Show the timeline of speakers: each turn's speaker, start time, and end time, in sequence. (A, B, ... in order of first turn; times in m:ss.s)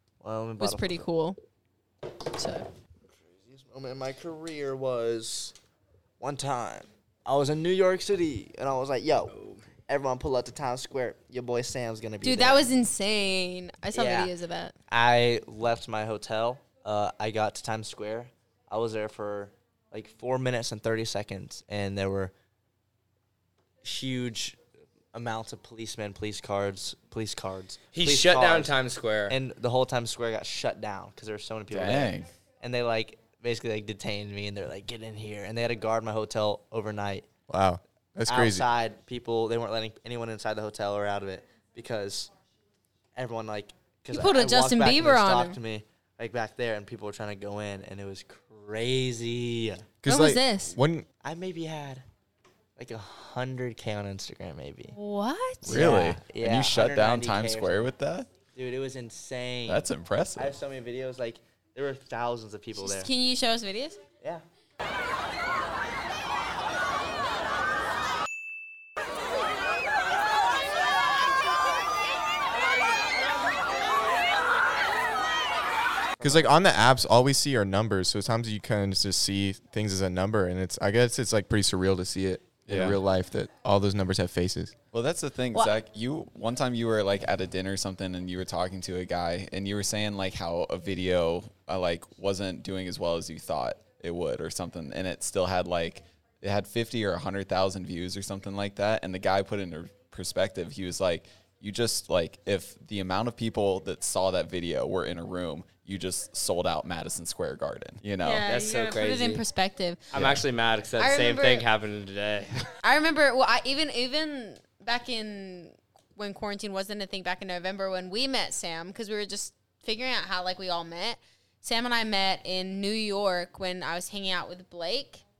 0:00.2-0:01.0 A
0:00.6-0:01.4 B
0:02.3-0:02.6 B
0:03.1-0:05.5 A
0:06.2-0:09.4 A
0:09.3-0:09.6 C
0:09.9-0:12.7 A
0:12.2-0:14.7 B
0:13.9-0:14.3 A
0:14.9-0:22.3 A
0:23.8-0:24.6 A
0:25.1-0:28.7 A
0:27.9-0:29.4 C
0:29.3-0:37.3 A
0:31.7-0:32.3 D
0:37.5-0:38.6 E
0:38.3-0:42.3 A
0:43.1-0:49.9 A
0:44.1-0:45.6 B
0:50.0-0:51.0 E
0:50.0-0:50.8 B
0:51.2-0:52.0 A
0:52.8-0:55.0 A
0:54.9-0:55.9 B
0:55.6-0:58.3 D
0:55.7-0:57.9 A
0:58.5-1:03.1 A
0:59.7-1:00.5 D
1:02.8-1:04.0 B
1:16.2-1:16.5 A
1:16.2-1:24.7 E
1:22.6-1:23.0 D
1:24.9-1:48.5 D
1:48.2-1:50.1 B
1:48.5-1:49.4 C
1:50.1-1:52.7 C
1:50.1-1:50.4 D
1:51.0-1:51.6 B
1:52.8-2:05.2 B